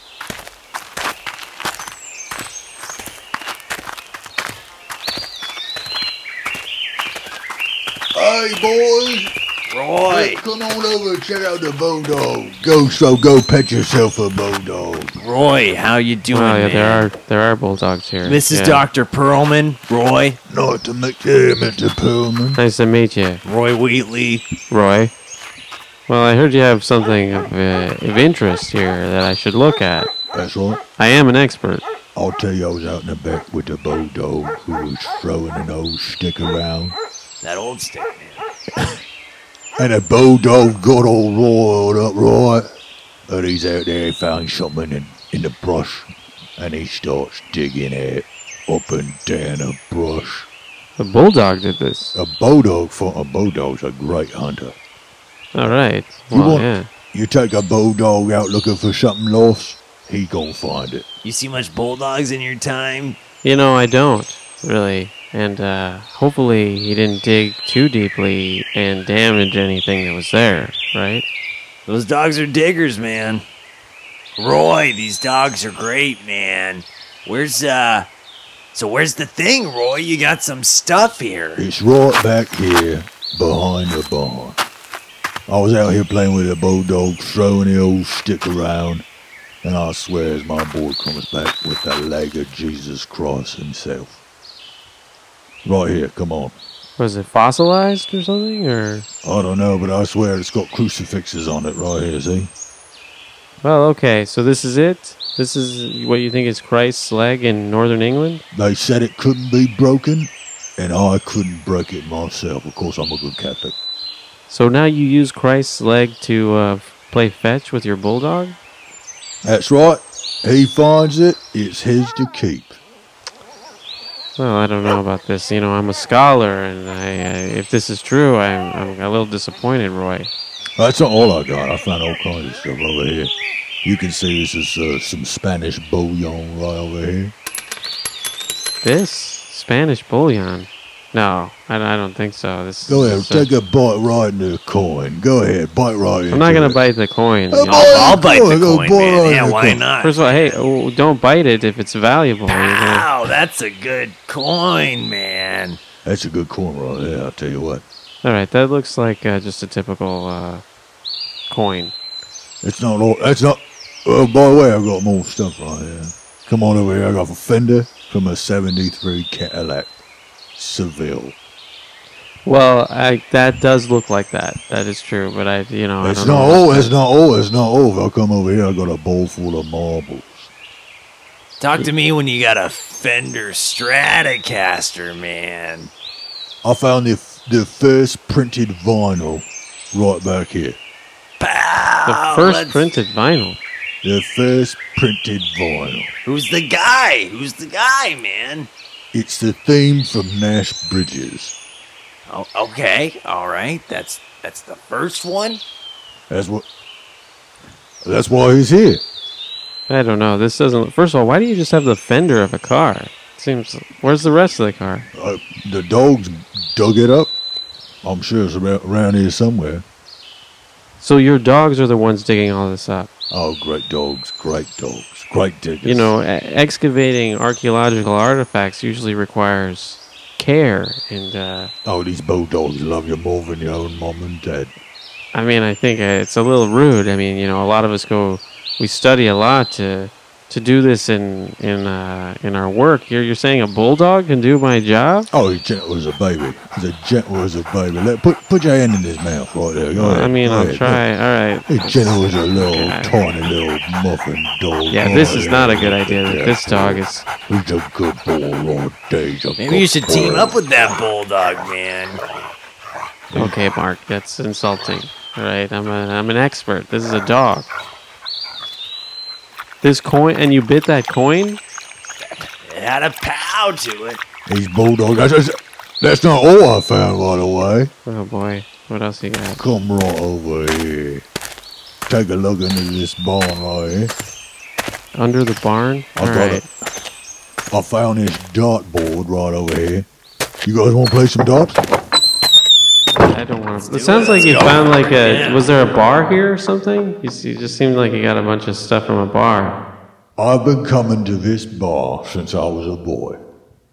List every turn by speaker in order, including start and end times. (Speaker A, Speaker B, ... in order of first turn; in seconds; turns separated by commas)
Speaker A: 8.1-9.3, Speaker B: 9.7-10.4, Speaker A: 10.1-15.2, Speaker B: 15.2-17.1, Speaker C: 16.3-18.8, Speaker B: 18.2-20.4, Speaker A: 20.5-22.6, Speaker C: 22.6-23.4, Speaker B: 23.4-24.5, Speaker C: 24.7-25.1, Speaker C: 26.1-30.1, Speaker A: 30.3-30.8, Speaker C: 31.0-31.9, Speaker A: 32.1-37.0, Speaker B: 37.4-38.5, Speaker A: 39.8-42.7, Speaker A: 43.3-50.5, Speaker C: 51.0-52.1, Speaker A: 52.1-54.8, Speaker C: 55.5-56.9, Speaker A: 56.3-61.1, Speaker B: 61.2-63.2, Speaker C: 63.4-71.2, Speaker B: 71.9-73.4, Speaker B: 74.4-78.1, Speaker B: 78.7-81.6, Speaker A: 81.6-84.6, Speaker A: 85.5-89.0, Speaker A: 89.6-94.2, Speaker A: 95.6-96.6, Speaker C: 97.0-99.1, Speaker A: 99.2-102.5, Speaker C: 103.6-108.4, Speaker A: 108.5-113.8, Speaker C: 114.5-118.6, Speaker A: 119.4-122.8, Speaker C: 124.4-130.3, Speaker A: 130.8-133.3, Speaker A: 133.8-137.3, Speaker C: 138.8-143.5, Speaker A: 142.9-146.8, Speaker C: 146.3-148.2, Speaker A: 147.5-149.8, Speaker B: 147.7-150.6, Speaker C: 150.0-153.1, Speaker B: 152.5-155.8, Speaker A: 156.0-157.8, Speaker C: 158.2-160.6, Speaker C: 161.5-161.9, Speaker A: 162.6-169.9, Speaker A: 170.6-171.4, Speaker C: 172.4-176.9, Speaker A: 176.0-180.5, Speaker B: 181.6-185.9, Speaker A: 186.6-190.8, Speaker B: 191.4-192.8, Speaker C: 192.1-193.6, Speaker A: 194.0-196.1, Speaker B: 196.2-198.7, Speaker A: 199.1-201.5, Speaker B: 202.3-205.6, Speaker A: 206.3-206.7, Speaker A: 208.0-209.0, Speaker C: 209.9-215.1, Speaker A: 215.1-217.3, Speaker A: 218.0-219.8, Speaker C: 221.0-223.1, Speaker A: 223.3-226.1, Speaker C: 225.8-231.7, Speaker A: 231.9-234.7, Speaker C: 235.3-245.3, Speaker A: 245.3-251.0, Speaker C: 249.9-253.2, Speaker A: 251.7-260.5, Speaker C: 254.9-257.3, Speaker B: 259.6-262.2, Speaker C: 263.3-267.7, Speaker C: 269.8-271.6, Speaker B: 272.3-274.2, Speaker A: 274.5-277.9, Speaker C: 278.1-279.6, Speaker A: 279.6-281.2, Speaker A: 282.1-284.1, Speaker C: 285.1-286.7, Speaker A: 286.2-286.7, Speaker A: 287.7-290.1, Speaker A: 290.6-291.8, Speaker C: 293.3-299.8, Speaker B: 293.8-295.7, Speaker A: 300.4-303.4